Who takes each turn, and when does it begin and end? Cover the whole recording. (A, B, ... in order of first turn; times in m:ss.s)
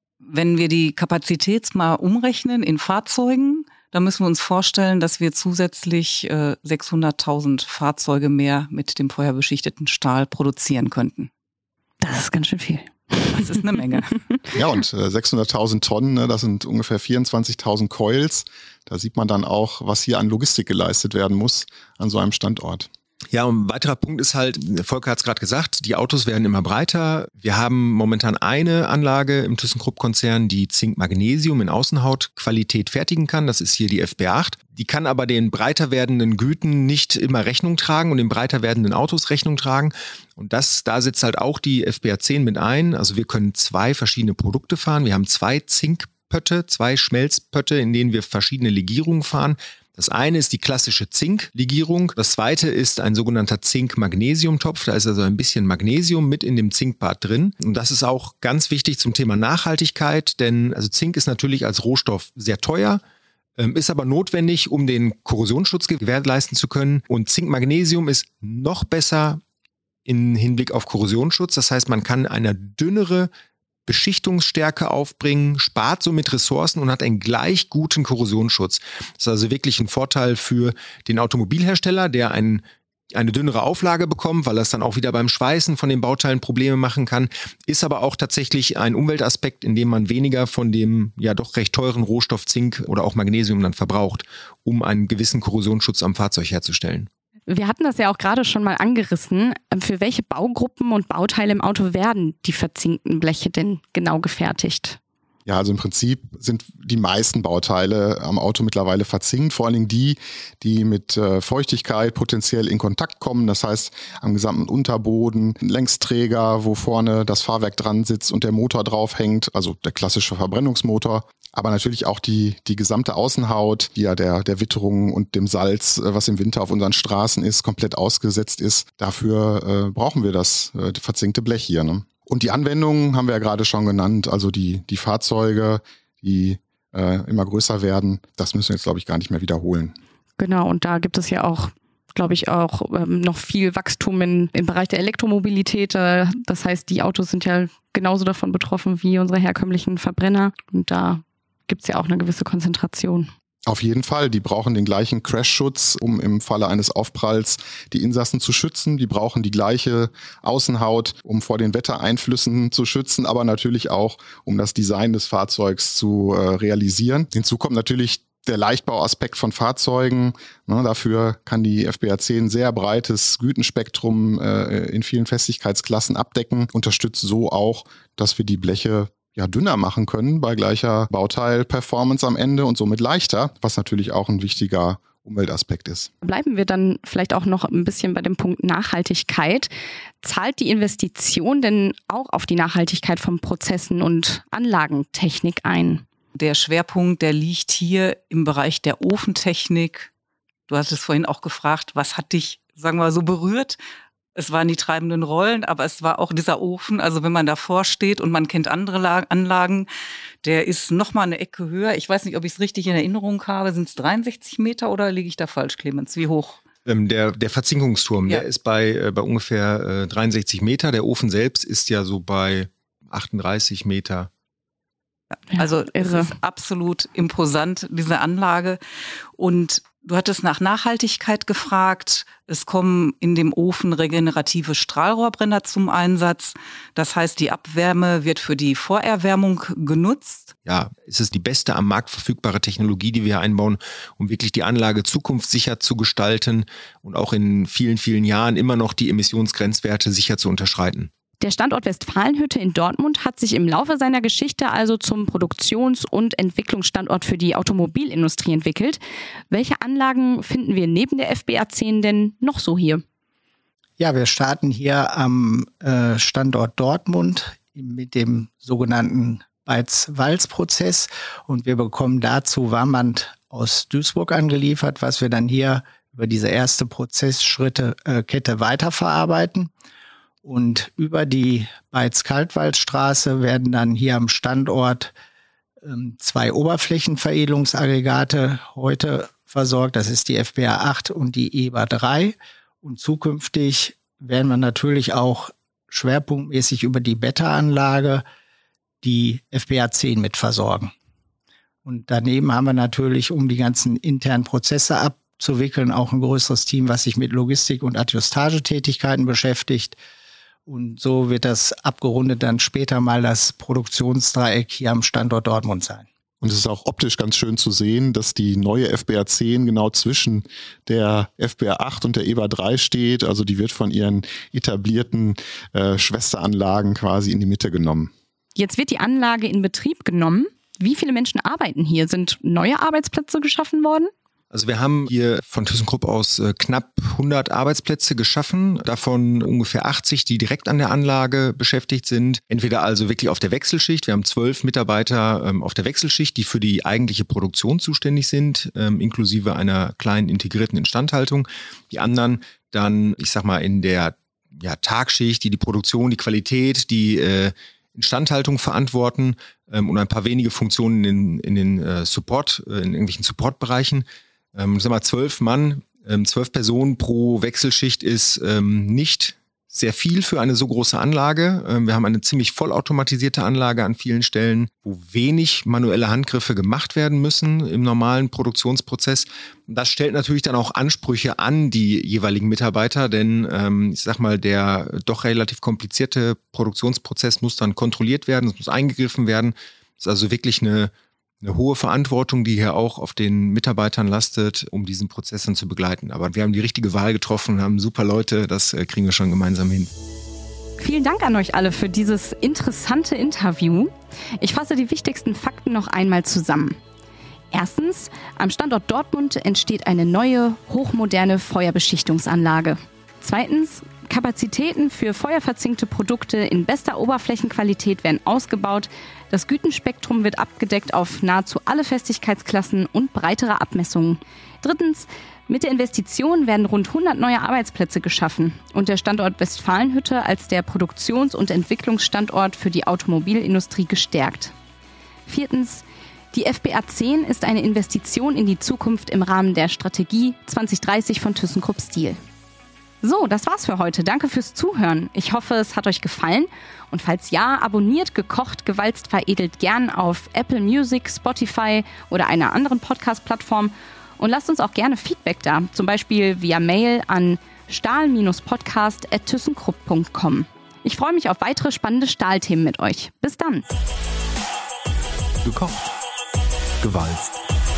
0:00.2-0:11.3 A
0:12.0-0:14.2 B
0:13.3-0:14.1 A
0:14.5-0:22.9 C
0:23.3-1:03.0 D
1:03.6-1:09.4 D
1:10.0-1:13.3 D
1:13.8-1:37.1 D
1:37.5-1:45.0 B
1:45.4-2:19.9 C
2:20.4-2:33.3 B
2:33.7-3:06.1 C
3:06.2-3:16.0 B
3:16.4-3:20.1 A
3:20.7-3:23.8 A
3:24.3-3:29.9 A
3:30.4-3:36.6 A
3:36.8-3:44.3 D
3:45.5-3:46.3 B
3:45.5-3:48.8 A
3:49.4-4:00.5 A
4:00.6-4:11.1 D
4:11.4-4:23.0 B
4:24.0-4:39.7 E
4:40.4-4:45.1 E
4:45.8-4:58.2 E
4:59.0-5:00.9 E
5:01.8-5:10.0 E
5:10.6-5:16.0 E
5:16.4-5:28.1 C
5:28.6-5:34.1 B
5:34.5-6:39.9 D
6:40.8-6:46.8 B
6:47.5-7:14.5 B
7:15.3-7:22.2 B
7:23.0-7:43.6 B
7:45.4-7:45.9 D
7:46.8-7:47.4 D